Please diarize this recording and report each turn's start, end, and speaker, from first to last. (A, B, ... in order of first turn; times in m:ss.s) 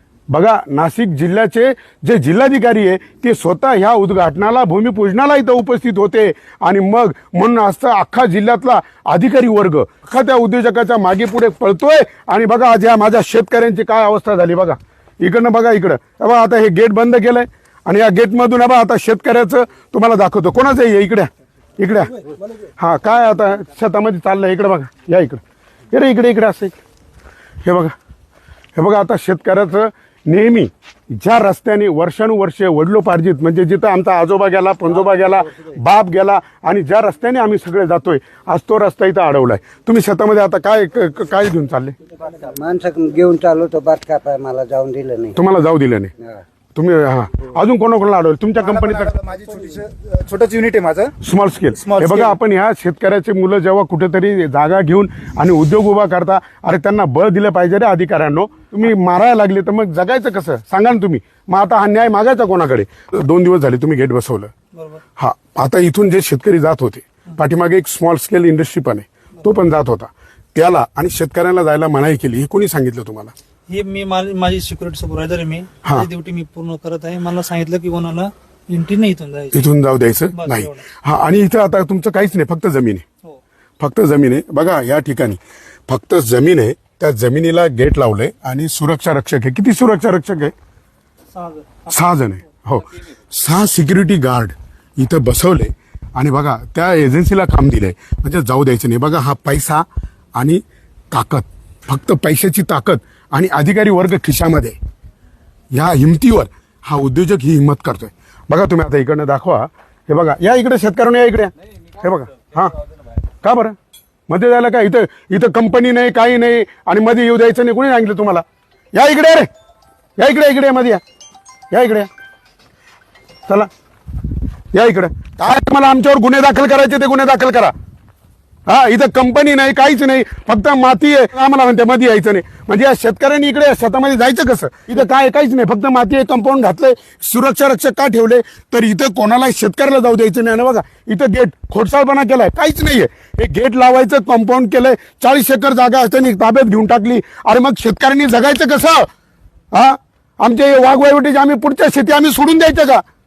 0:00.3-0:22.2 A
0:22.8-0:25.4 A
0:25.9-0:26.7 A
0:27.6-0:27.9 A
0:28.7-0:41.9 A
0:42.2-0:45.4 B
0:45.4-0:46.1 A
0:46.7-0:49.2 A
0:48.8-0:51.1 C
0:51.2-1:04.5 A
0:51.9-0:52.2 C
1:05.2-1:13.3 A
1:13.7-1:19.6 D
1:15.8-1:16.1 A
1:19.5-1:23.0 A
1:20.3-1:20.8 D
1:23.8-1:30.5 A
1:31.3-1:31.7 D
1:31.9-1:39.8 A
1:40.4-1:44.8 A
1:45.7-1:52.7 A
1:53.4-1:53.8 A
1:54.3-1:59.5 A
2:00.2-2:01.0 A
2:01.7-2:02.1 A
2:04.7-2:07.7 A
2:08.7-2:29.1 A
2:29.7-2:33.0 A